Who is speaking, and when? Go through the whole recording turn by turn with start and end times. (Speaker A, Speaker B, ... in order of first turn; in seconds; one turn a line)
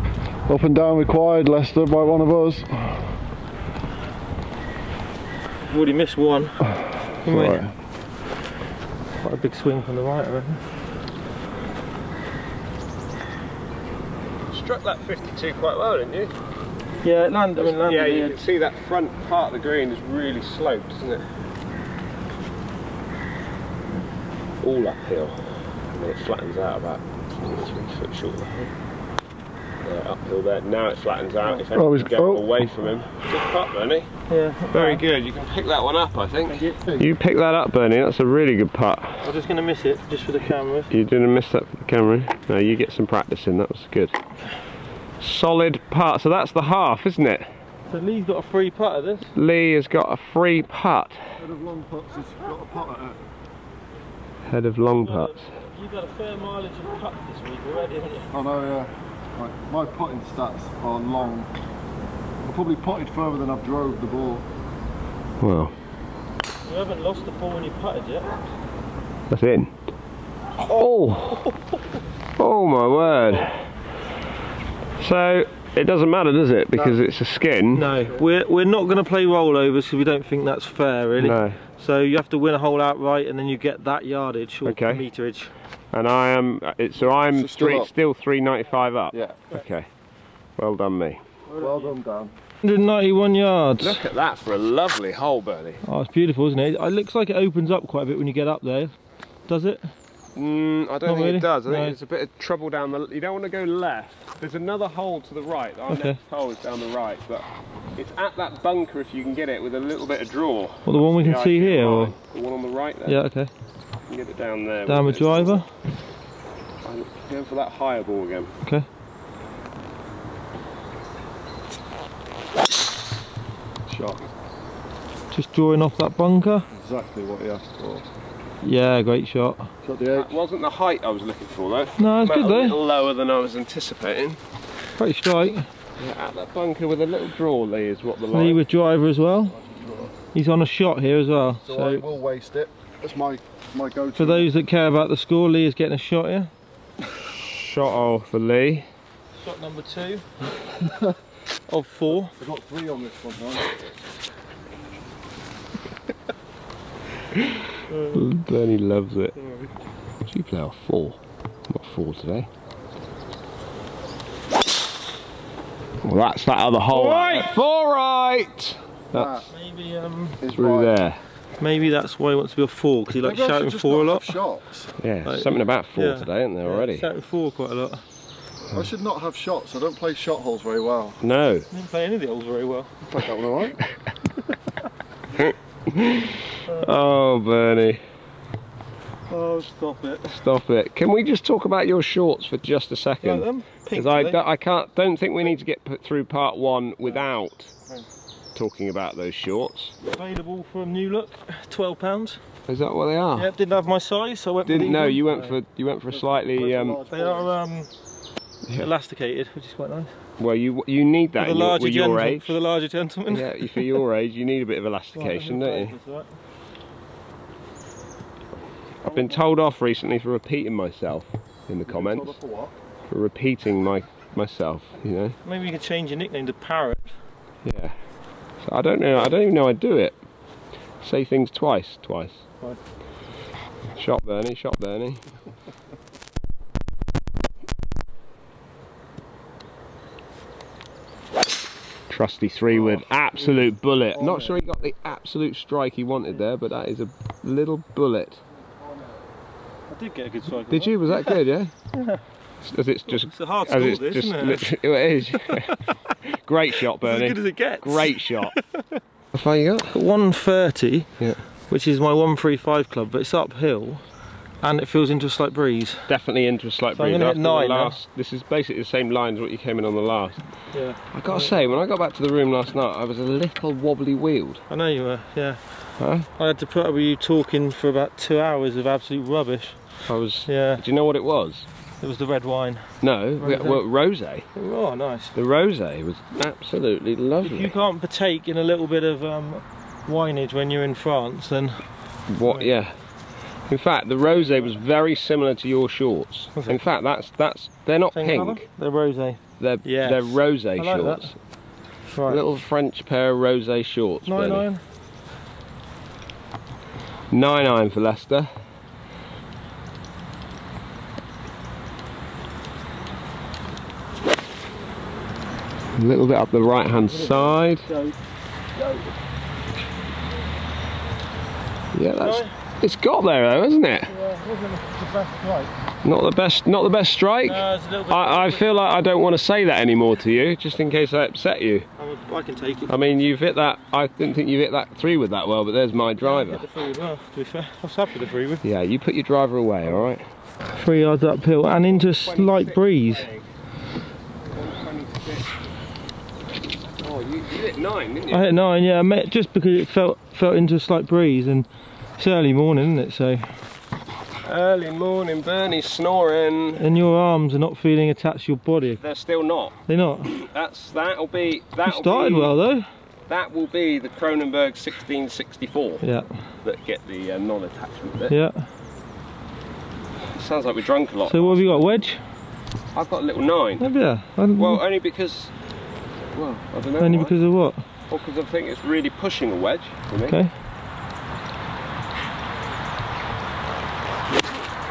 Speaker A: 0.5-2.8
Speaker B: 5.7-7.6
Speaker A: 7.2-7.7
Speaker B: 9.2-10.6
Speaker C: 14.5-16.3
Speaker B: 17.0-18.4
Speaker C: 17.6-21.3
Speaker C: 24.6-28.7
Speaker C: 29.8-34.1
Speaker A: 31.7-32.7
Speaker B: 34.3-35.0
Speaker C: 34.7-39.2
Speaker B: 36.5-36.8
Speaker B: 39.2-40.9
Speaker C: 40.9-44.2
Speaker C: 45.2-47.5
Speaker B: 47.9-49.3
Speaker C: 49.3-51.2
Speaker A: 51.4-53.2
Speaker C: 54.5-55.4
Speaker B: 55.0-58.3
Speaker A: 58.3-61.5
Speaker A: 62.4-64.5
Speaker C: 65.4-65.7
Speaker B: 66.6-68.4
Speaker C: 69.3-69.7
Speaker C: 70.7-71.5
Speaker C: 72.4-73.7
Speaker C: 75.0-77.9
Speaker B: 77.7-85.5
Speaker C: 81.2-81.6
Speaker C: 84.6-85.0
Speaker C: 85.9-89.8
Speaker A: 87.3-87.9
Speaker A: 89.1-89.4
Speaker C: 90.6-91.2
Speaker A: 91.5-92.3
Speaker B: 92.6-94.0
Speaker C: 93.8-95.8
Speaker B: 95.8-98.9
Speaker B: 99.5-99.9
Speaker C: 100.3-113.2
Speaker B: 101.0-101.9
Speaker B: 105.9-106.2
Speaker B: 110.8-112.1
Speaker B: 113.0-113.5
Speaker C: 114.1-115.6
Speaker B: 114.9-115.7
Speaker C: 116.8-118.5
Speaker A: 123.9-124.3
Speaker B: 125.3-126.7
Speaker A: 126.7-128.0
Speaker B: 128.6-129.7
Speaker A: 129.8-130.4
Speaker C: 130.1-134.4
Speaker B: 132.0-132.8
Speaker B: 135.0-135.7
Speaker C: 136.0-138.6
Speaker B: 138.3-139.6
Speaker A: 139.5-140.1
Speaker B: 140.3-142.0
Speaker A: 141.6-144.5
Speaker B: 144.2-146.5
Speaker C: 147.4-148.9
Speaker B: 149.4-150.3
Speaker B: 151.7-152.3
Speaker A: 152.3-153.8
Speaker C: 157.4-159.3
Speaker B: 157.9-158.2
Speaker B: 159.4-159.7
Speaker C: 160.2-161.2
Speaker C: 161.7-162.5
Speaker C: 166.0-169.4
Speaker B: 166.9-167.5
Speaker A: 169.1-169.5
Speaker B: 169.5-170.4
Speaker A: 170.4-171.0
Speaker C: 170.5-171.2
Speaker B: 171.6-174.4
Speaker A: 173.2-174.9
Speaker C: 175.0-177.1
Speaker B: 175.2-178.0
Speaker A: 178.7-181.2
Speaker C: 181.2-181.7
Speaker B: 181.7-182.9
Speaker A: 183.1-183.8
Speaker C: 183.8-184.1
Speaker C: 185.3-188.0
Speaker B: 189.3-190.3
Speaker C: 190.2-197.7
Speaker B: 193.2-194.4
Speaker C: 198.5-200.0
Speaker B: 200.1-202.4
Speaker C: 202.7-203.5
Speaker B: 203.3-205.6
Speaker C: 204.7-207.0
Speaker A: 206.1-207.5
Speaker B: 207.1-207.9
Speaker B: 208.7-210.1
Speaker C: 210.4-212.6
Speaker B: 211.4-214.0
Speaker C: 213.3-215.9
Speaker B: 215.1-216.3
Speaker C: 219.0-222.3
Speaker A: 221.8-222.8
Speaker C: 223.1-225.4
Speaker B: 225.4-227.1
Speaker C: 227.6-227.9
Speaker C: 228.6-230.1
Speaker C: 231.0-232.4
Speaker C: 233.9-235.2
Speaker C: 242.1-248.4
Speaker A: 244.2-244.8
Speaker A: 248.8-249.1
Speaker B: 249.9-251.4
Speaker C: 250.7-251.7
Speaker B: 251.9-252.2
Speaker C: 252.6-258.5
Speaker B: 253.1-254.7
Speaker B: 255.4-256.2
Speaker B: 257.0-259.0
Speaker C: 259.3-259.9
Speaker B: 259.9-261.1
Speaker B: 261.7-264.0
Speaker B: 264.6-266.1
Speaker C: 266.1-270.5
Speaker B: 266.9-268.0
Speaker B: 270.7-271.5
Speaker C: 271.1-274.6
Speaker B: 274.7-275.6
Speaker C: 276.0-276.3
Speaker B: 276.3-279.8
Speaker C: 280.1-281.7
Speaker B: 280.4-280.8
Speaker B: 282.0-283.8
Speaker C: 283.0-284.5
Speaker B: 284.5-285.4
Speaker C: 285.3-287.7
Speaker B: 287.4-291.9
Speaker C: 292.3-292.9
Speaker B: 292.4-292.7
Speaker C: 293.7-298.6
Speaker B: 294.2-294.7
Speaker B: 296.5-296.8
Speaker B: 298.1-301.3
Speaker C: 299.6-301.3
Speaker B: 302.1-302.4
Speaker C: 302.3-304.6
Speaker B: 304.2-304.8
Speaker C: 307.3-308.5
Speaker C: 315.9-317.9
Speaker B: 317.1-318.1
Speaker B: 318.8-319.1
Speaker C: 321.9-324.1
Speaker B: 322.1-322.5
Speaker B: 324.1-325.7
Speaker C: 326.0-331.9
Speaker B: 327.4-328.6
Speaker B: 332.0-332.9
Speaker C: 332.9-336.6
Speaker B: 336.2-338.6
Speaker C: 338.6-340.2
Speaker B: 340.8-343.3
Speaker C: 341.9-343.4
Speaker C: 344.5-345.5
Speaker C: 347.0-348.6
Speaker B: 348.3-351.7
Speaker B: 352.2-353.6
Speaker C: 354.4-356.9
Speaker B: 356.8-359.0
Speaker C: 359.0-362.5
Speaker B: 359.9-360.3
Speaker B: 361.8-362.9
Speaker C: 363.3-366.0
Speaker B: 366.0-366.3
Speaker C: 366.6-368.3
Speaker B: 368.3-368.6
Speaker C: 370.3-371.6
Speaker B: 371.3-372.2
Speaker C: 372.9-373.9
Speaker B: 373.8-374.8
Speaker C: 374.6-375.5
Speaker C: 376.3-377.4
Speaker B: 377.0-377.8
Speaker C: 378.1-380.4
Speaker B: 380.3-380.5